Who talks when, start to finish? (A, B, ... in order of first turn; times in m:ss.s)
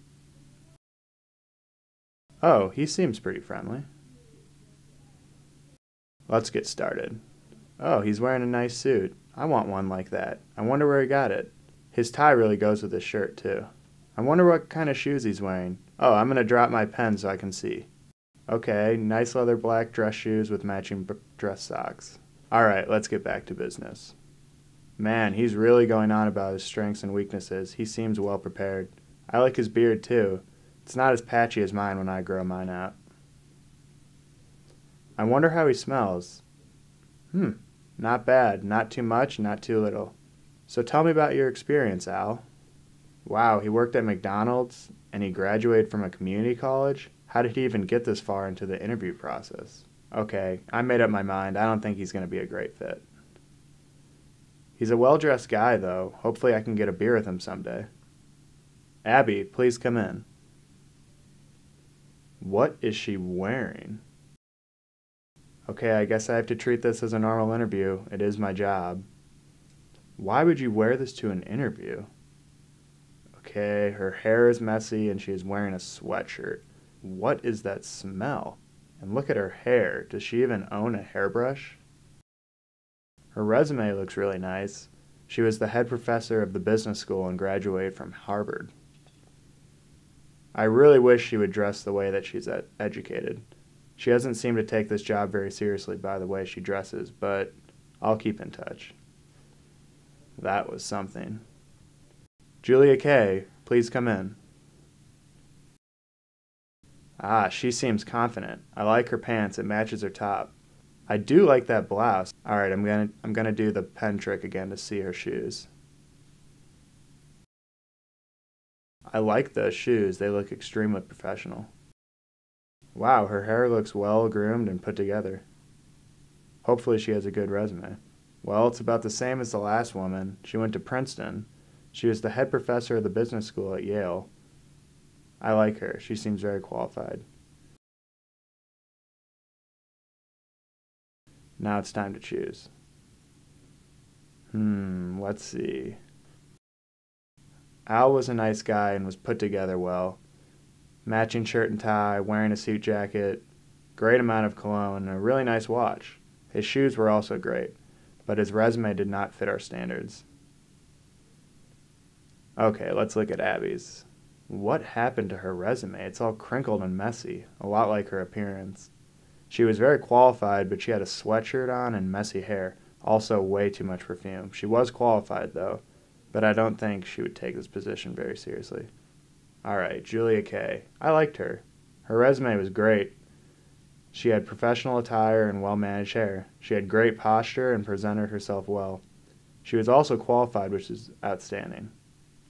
0:02.4-0:03.8 A
0:06.3-0:07.2 A
0:07.8-0:17.9 A
0:18.5-0:24.1 A
0:25.0-0:33.0 A
0:35.2-0:36.4 A
0:37.3-0:40.1 A
0:40.7-0:42.4 A
0:43.2-0:53.0 A
0:54.8-0:57.9 A
0:59.0-1:00.2 A
1:02.4-1:04.0 A
1:05.7-1:09.0 A
1:10.2-1:12.1 A
1:13.4-1:21.8 A
1:23.3-1:28.7 A
1:30.5-1:33.4 A
1:34.0-1:38.9 A
1:40.4-1:41.4 A
1:42.6-1:44.4 A
1:47.2-1:50.5 A
1:51.1-1:55.7 A
1:59.1-2:01.7 A
2:02.9-2:05.4 A
2:06.6-2:14.3 A
2:15.4-2:17.2 A
2:21.6-2:22.7 A
2:24.5-2:26.0 A
2:27.9-2:30.2 A
2:31.0-2:33.4 A
2:34.0-2:40.2 A
2:42.6-2:48.9 A
2:49.5-2:58.9 A
2:59.6-3:03.2 A
3:04.1-3:09.0 A
3:09.6-3:11.9 A